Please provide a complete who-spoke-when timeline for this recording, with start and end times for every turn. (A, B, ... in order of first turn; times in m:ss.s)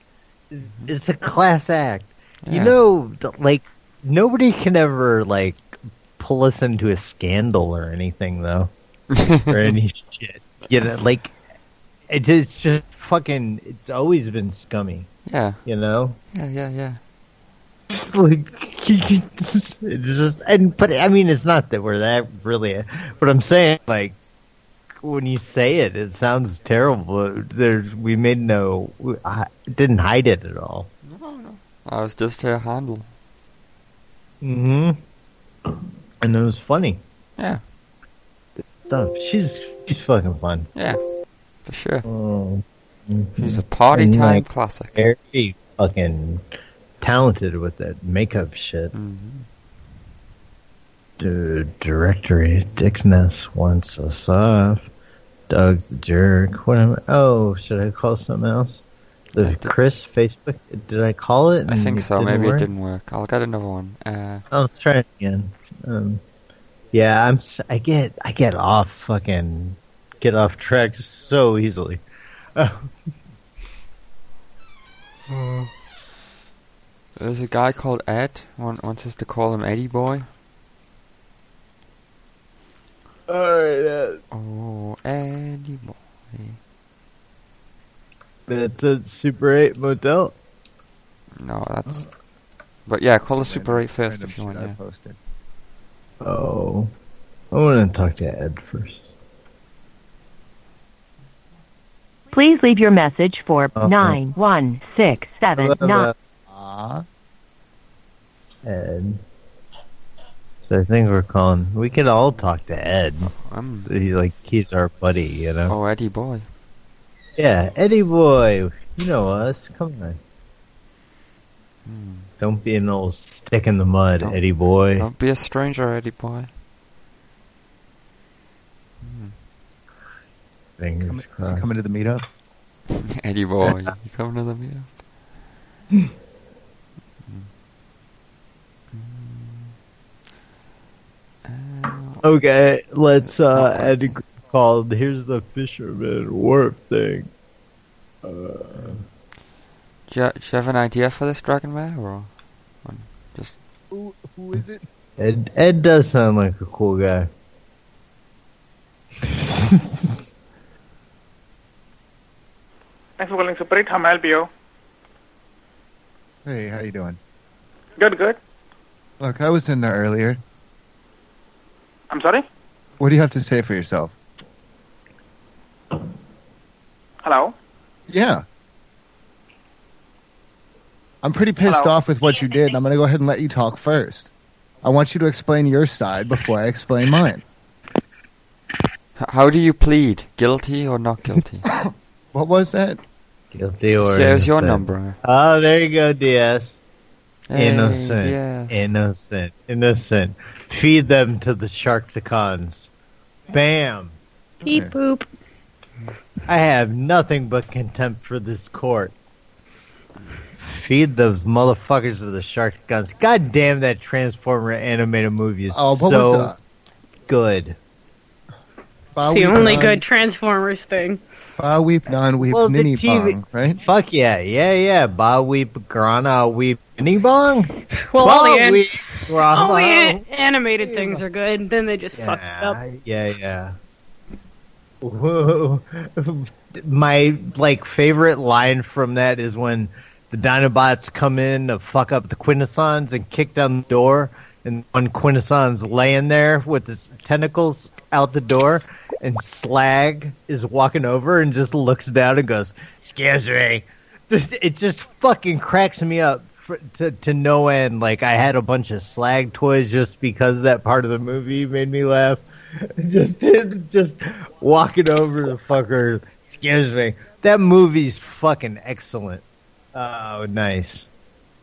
0:00.5-0:08.7 A
0:00.7-0:00.9 B
0:02.4-0:02.8 B
0:09.1-0:09.7 B
0:09.5-0:11.4 A
0:12.1-0:15.1 A
0:15.3-0:15.6 B
0:15.6-0:16.2 A
0:16.3-0:17.0 B
0:17.9-0:24.2 A
0:25.0-0:30.9 A
0:31.0-0:33.1 B
0:34.4-0:35.0 A
0:36.2-0:37.0 A
0:38.8-0:40.7 A
0:40.8-0:41.0 B
0:41.6-0:42.1 B
0:42.0-0:46.4 A
0:43.4-0:45.0 B
0:47.0-0:48.9 A
0:48.9-0:49.5 B
0:51.2-0:54.9 A
0:55.5-0:58.8 A
0:59.3-1:02.7 A
0:59.4-0:59.8 B
1:01.7-1:04.4 B
1:04.5-1:06.2 A
1:06.9-1:12.0 A
1:12.6-1:12.9 A
1:15.3-1:15.7 A
1:17.2-1:20.3 B
1:23.3-1:24.2 A
1:24.3-1:26.6 B
1:28.5-1:30.4 A
1:31.4-1:32.1 B
1:32.9-1:34.8 B
1:33.3-1:35.2 C
1:36.2-1:36.9 A
1:37.5-1:39.1 A
1:42.3-1:46.1 D
1:43.8-1:44.2 A
1:45.5-1:46.1 A
1:46.5-1:47.0 C
1:48.6-1:49.2 A
1:50.6-1:53.3 A
1:53.3-1:53.9 B
1:53.9-1:55.7 A
1:55.7-1:56.5 B
1:57.4-2:00.2 A
2:01.8-2:02.3 B
2:02.4-2:05.1 A
2:05.0-2:06.5 B
2:09.0-2:09.3 B
2:10.8-2:11.7 A
2:11.0-2:12.2 C
2:12.9-2:14.9 B
2:18.9-2:19.8 B
2:21.4-2:22.2 B
2:22.2-2:27.3 A
2:23.2-2:24.2 B
2:28.2-2:29.0 A
2:30.1-2:32.3 B
2:32.8-2:33.6 B
2:33.9-2:34.8 C
2:35.2-2:37.3 A
2:39.2-2:40.3 A
2:43.2-2:44.5 E
2:46.4-2:47.2 C
2:48.0-2:48.4 E
2:49.2-2:50.4 C
2:52.1-2:52.4 E
2:53.0-2:54.2 C
2:57.2-2:57.5 E
2:58.1-2:58.4 C
3:01.2-3:04.3 C
3:01.6-3:01.9 E
3:04.8-3:07.4 C
3:09.2-3:11.6 B
3:11.7-3:13.0 C
3:13.5-3:16.8 A
3:14.0-3:15.2 B
3:17.5-3:18.9 B
3:17.5-3:22.9 A
3:23.5-3:24.2 A
3:24.6-3:25.3 F
3:26.5-3:29.1 A
3:30.6-3:36.5 A
3:35.7-3:36.6 C
3:37.3-3:37.8 A
3:39.2-3:40.0 C
3:39.3-3:41.2 F
3:39.3-3:40.0 A
3:41.6-3:43.8 C
3:42.4-3:50.2 A
3:48.0-3:52.8 F
3:50.8-3:51.2 A
3:52.2-3:53.8 A
3:55.0-4:29.4 A
4:29.9-4:31.1 A